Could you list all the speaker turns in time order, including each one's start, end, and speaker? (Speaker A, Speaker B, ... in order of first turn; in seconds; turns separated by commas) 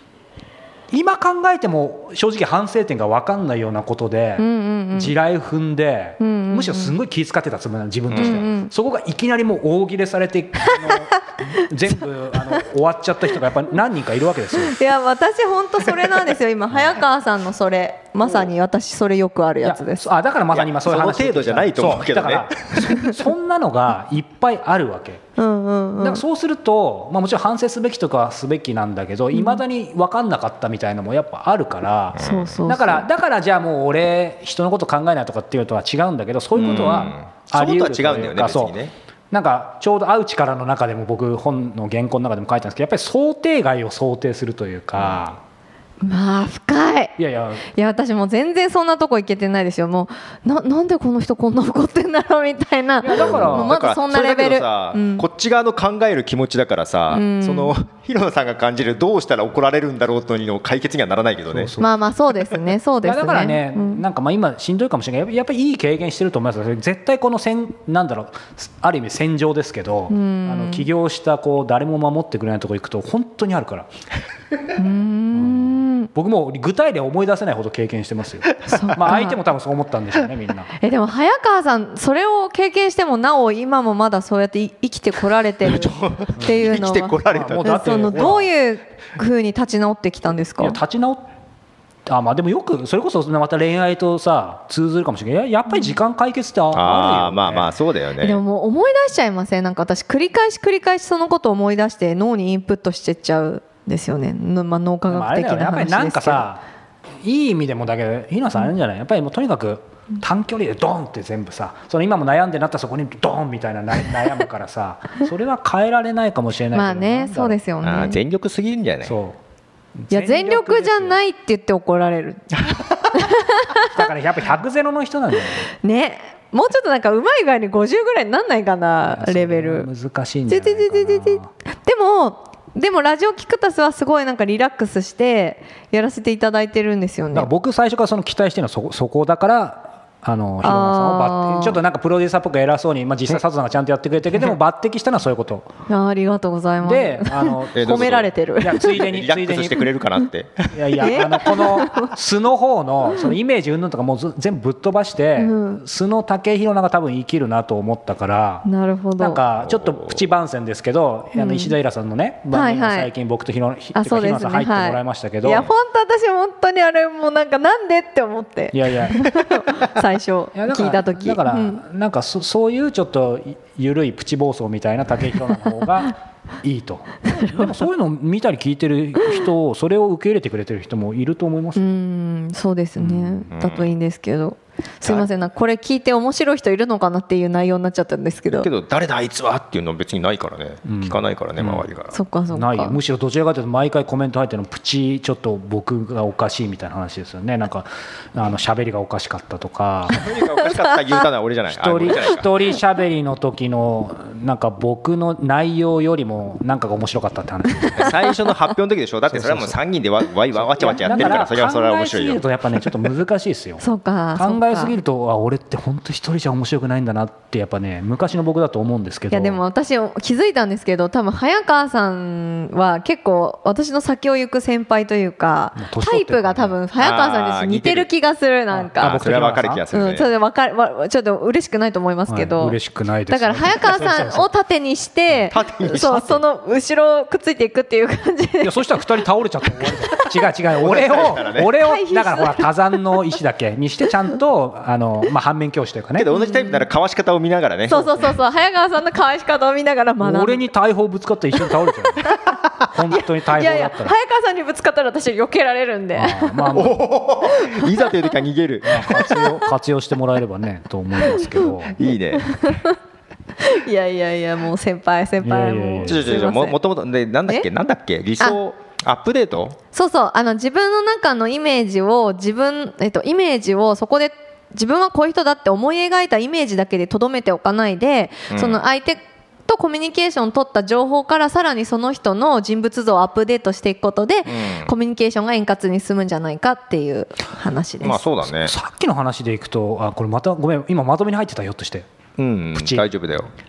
Speaker A: 0.9-14.8, Speaker B: 4.4-5.1, Speaker B: 6.2-7.0, Speaker C: 8.1-8.4, Speaker B: 8.2-8.7, Speaker B: 10.6-11.7, Speaker B: 14.7-20.0, Speaker A: 19.6-25.2, Speaker C: 20.5-23.0, Speaker B: 25.4-26.2, Speaker A: 26.0-38.7, Speaker B: 29.3-29.6, Speaker C: 32.2-32.6, Speaker B: 32.2-33.0, Speaker C: 36.5-38.9, Speaker A: 39.3-45.4, Speaker C: 45.0-45.2, Speaker B: 46.0-55.2, Speaker A: 47.2-47.6, Speaker A: 53.0-53.7, Speaker C: 53.1-61.7, Speaker B: 57.1-57.7, Speaker A: 61.5-61.9, Speaker B: 61.8-64.0, Speaker A: 63.0-73.9, Speaker B: 70.1-70.9, Speaker B: 74.8-76.1, Speaker A: 75.3-80.7, Speaker B: 78.7-79.4, Speaker B: 80.8-90.8, Speaker C: 85.6-88.3, Speaker A: 87.3-88.5, Speaker A: 90.6-91.3, Speaker A: 92.0-97.7, Speaker B: 95.7-95.9, Speaker C: 96.7-98.4, Speaker B: 98.2-106.5, Speaker A: 105.1-106.6, Speaker A: 107.2-117.6, Speaker B: 116.7-118.2, Speaker C: 117.8-119.2, Speaker A: 119.0-119.4, Speaker A: 120.0-121.2, Speaker B: 120.1-122.5, Speaker B: 123.1-123.9, Speaker A: 123.8-125.7, Speaker B: 125.8-129.9, Speaker A: 129.1-131.5, Speaker B: 130.5-137.5, Speaker A: 137.3-145.7, Speaker B: 140.6-141.8, Speaker B: 145.9-149.1, Speaker A: 146.8-149.9, Speaker C: 147.7-151.6, Speaker A: 150.7-158.7, Speaker B: 151.0-152.1, Speaker B: 155.4-155.8, Speaker B: 158.6-159.4, Speaker A: 159.2-165.7, Speaker C: 159.6-160.2, Speaker B: 161.3-161.7, Speaker B: 162.5-163.1, Speaker B: 163.9-171.8, Speaker A: 168.7-169.6, Speaker A: 170.5-181.9, Speaker B: 177.3-177.7, Speaker B: 181.8-188.7, Speaker A: 183.0-183.5, Speaker C: 183.5-183.9, Speaker C: 188.5-192.1, Speaker A: 190.8-191.9, Speaker B: 192.1-193.0, Speaker A: 192.5-200.2, Speaker C: 200.1-202.5, Speaker A: 201.7-208.2, Speaker C: 207.9-213.0, Speaker A: 209.3-209.8, Speaker A: 210.5-213.8, Speaker B: 213.8-214.9, Speaker A: 214.3-219.6, Speaker B: 219.3-229.2, Speaker A: 225.8-226.8, Speaker C: 227.0-228.1, Speaker A: 228.7-229.8, Speaker C: 229.0-230.3, Speaker B: 229.9-232.8, Speaker A: 232.3-234.5, Speaker B: 233.3-239.0, Speaker C: 235.5-236.4, Speaker A: 238.6-246.3, Speaker B: 239.8-240.3, Speaker C: 240.8-241.7, Speaker B: 241.7-243.0, Speaker C: 246.2-248.2, Speaker B: 246.3-246.8, Speaker B: 247.9-250.7, Speaker A: 250.2-252.3, Speaker B: 252.2-252.5, Speaker A: 252.9-254.1, Speaker B: 253.1-256.8, Speaker A: 256.1-257.0, Speaker C: 256.7-259.3, Speaker B: 257.5-258.2, Speaker A: 258.8-262.0, Speaker B: 259.1-259.6, Speaker C: 261.9-262.8, Speaker B: 262.3-263.0, Speaker B: 263.6-266.8, Speaker A: 265.4-266.5, Speaker C: 266.0-269.8, Speaker B: 269.9-288.2, Speaker C: 278.5-278.8, Speaker C: 284.5-284.9, Speaker C: 288.0-288.7, Speaker A: 288.5-292.1, Speaker C: 292.4-293.5, Speaker A: 292.8-293.1